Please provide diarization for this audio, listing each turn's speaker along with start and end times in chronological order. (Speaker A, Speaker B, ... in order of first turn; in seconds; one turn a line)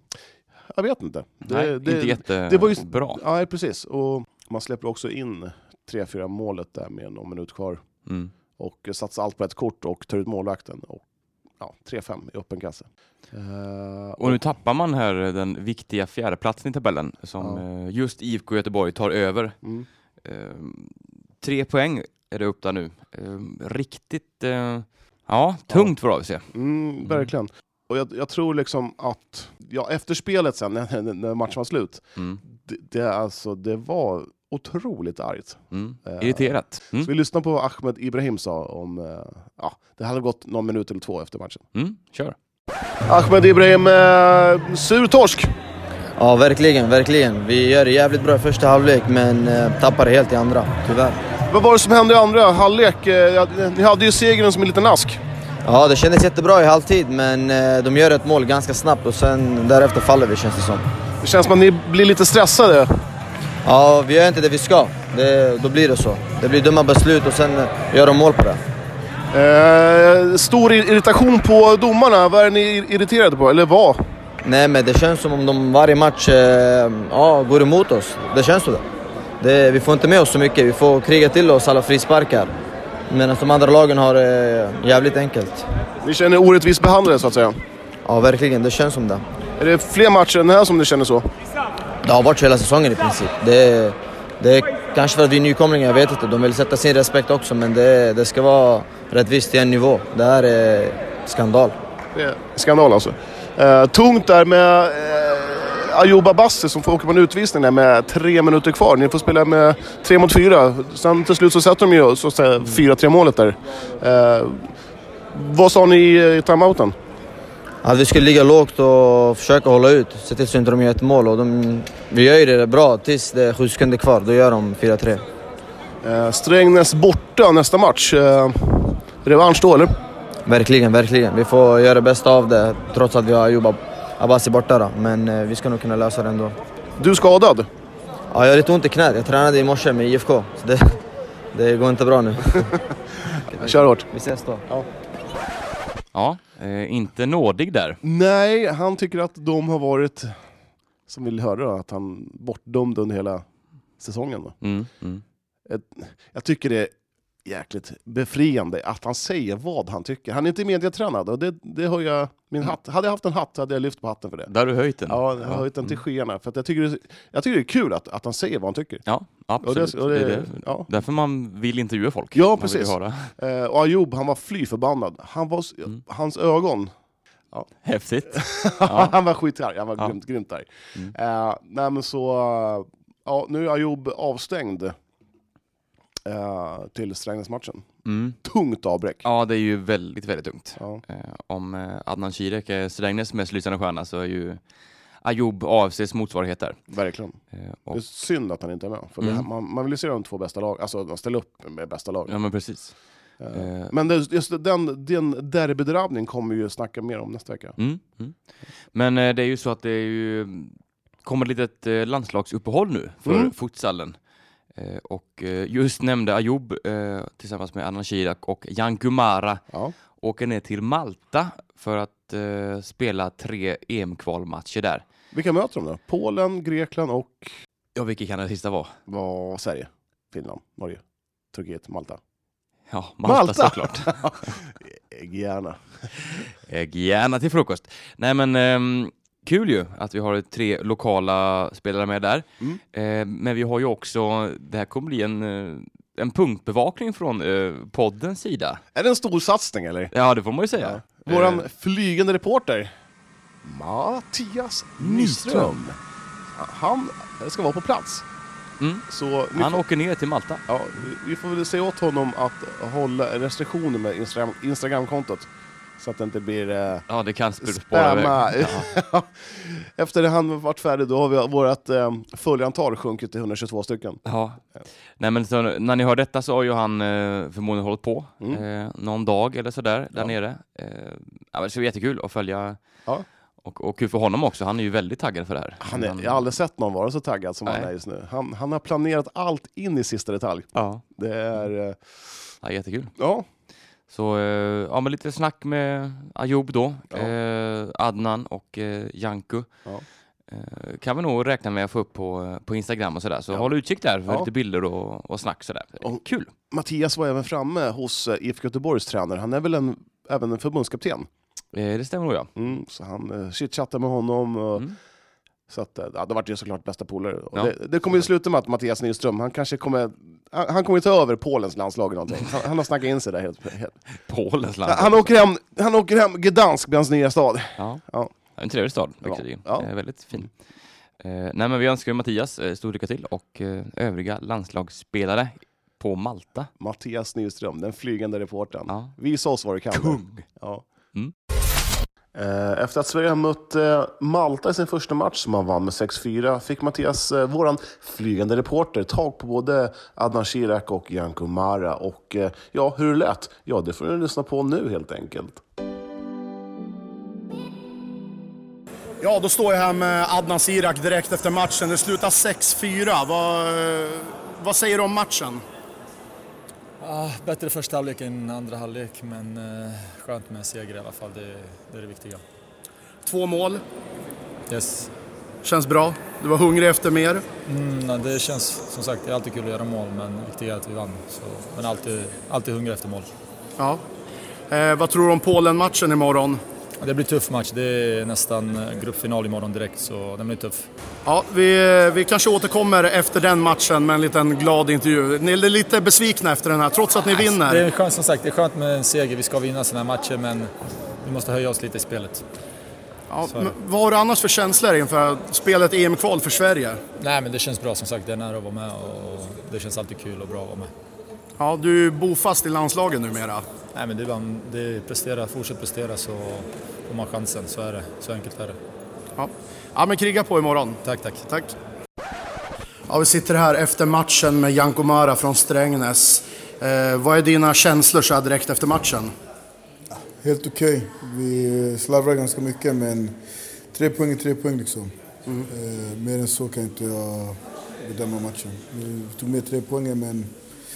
Speaker A: 0.7-7.8
Speaker B: 1.4-3.2
Speaker B: 8.1-8.3
Speaker A: 8.6-11.0
Speaker A: 11.6-14.4
Speaker B: 14.2-19.6
Speaker B: 20.2-26.5
Speaker A: 26.5-41.6
Speaker B: 32.1-32.4
Speaker B: 35.7-37.1
Speaker B: 41.7-42.4
Speaker A: 43.0-45.5
Speaker C: 46.2-51.2
Speaker A: 51.5-55.2
Speaker C: 55.6-60.9
Speaker A: 61.2-62.9
Speaker C: 63.6-68.6
Speaker A: 69.3-74.0
Speaker C: 74.4-78.8
Speaker C: 79.4-82.5
Speaker C: 83.1-85.6
Speaker A: 86.0-87.6
Speaker C: 88.0-89.2
Speaker A: 89.6-91.2
Speaker C: 92.0-101.7
Speaker A: 102.1-114.7
Speaker A: 115.3-116.9
Speaker C: 117.8-125.2
Speaker A: 126.0-129.9
Speaker C: 130.4-136.6
Speaker A: 137.0-137.7
Speaker C: 138.3-141.0
Speaker C: 141.5-142.7
Speaker C: 143.5-144.6
Speaker A: 143.5-144.1
Speaker B: 146.1-148.0
Speaker A: 148.0-150.3
Speaker A: 151.1-153.4
Speaker A: 154.0-154.5
Speaker B: 154.6-155.2
Speaker A: 155.7-156.9
Speaker A: 157.4-164.5
Speaker B: 164.5-166.0
Speaker A: 165.1-169.0
Speaker B: 169.1-173.3
Speaker A: 169.6-170.9
Speaker A: 172.3-176.9
Speaker B: 177.8-179.2
Speaker A: 178.3-184.9
Speaker A: 186.2-187.9
Speaker B: 188.0-188.4
Speaker A: 188.4-189.2
Speaker B: 189.2-194.6
Speaker A: 190.8-191.0
Speaker B: 195.2-196.8
Speaker A: 196.9-197.4
Speaker B: 197.5-198.0
Speaker A: 197.9-202.3
Speaker B: 199.2-199.4
Speaker B: 202.3-202.9
Speaker A: 203.4-207.8
Speaker B: 203.5-203.9
Speaker B: 207.8-208.4
Speaker B: 208.9-214.2
Speaker A: 213.2-213.5
Speaker B: 214.7-219.6
Speaker A: 219.7-219.9
Speaker B: 220.2-225.0
Speaker A: 225.3-227.5
Speaker B: 227.9-228.9
Speaker A: 229.1-231.0
Speaker A: 231.5-232.2
Speaker B: 232.9-234.6
Speaker A: 233.2-236.1
Speaker B: 236.2-248.8
Speaker A: 248.9-250.1
Speaker B: 250.1-251.6
Speaker A: 250.8-252.9
Speaker A: 253.6-256.0
Speaker B: 255.0-255.8
Speaker A: 256.5-258.2
Speaker B: 258.8-260.6
Speaker A: 259.1-259.8
Speaker A: 260.7-267.0
Speaker B: 267.1-268.9
Speaker A: 267.6-274.2
Speaker B: 274.2-274.6
Speaker B: 275.2-282.8
Speaker B: 283.6-286.5
Speaker A: 285.8-292.0
Speaker B: 290.7-291.0
Speaker B: 292.6-293.1
Speaker A: 293.2-293.4
Speaker B: 294.1-299.7
Speaker B: 300.5-306.5
Speaker A: 306.0-311.3
Speaker B: 311.7-312.5
Speaker A: 312.6-314.9
Speaker A: 315.7-323.9
Speaker B: 324.1-325.3
Speaker A: 324.9-328.3
Speaker B: 328.5-330.5
Speaker A: 329.2-329.9
Speaker B: 331.2-336.7
Speaker A: 336.8-340.8
Speaker B: 339.9-340.4
Speaker A: 342.3-355.6
Speaker D: 359.2-365.6
Speaker E: 367.0-372.4
Speaker D: 373.2-373.8
Speaker E: 374.7-375.1
Speaker D: 375.6-377.4
Speaker E: 377.6-383.3
Speaker D: 383.8-384.0
Speaker D: 384.7-386.6
Speaker E: 387.0-390.9
Speaker D: 391.2-397.9
Speaker E: 397.3-400.7
Speaker E: 401.2-402.4
Speaker D: 403.3-407.0
Speaker E: 407.2-410.9
Speaker D: 411.6-413.6
Speaker E: 413.9-418.8
Speaker D: 419.4-421.7
Speaker E: 421.0-421.4
Speaker D: 423.1-429.3
Speaker F: 430.4-433.4
Speaker F: 433.9-435.1
Speaker F: 435.7-440.5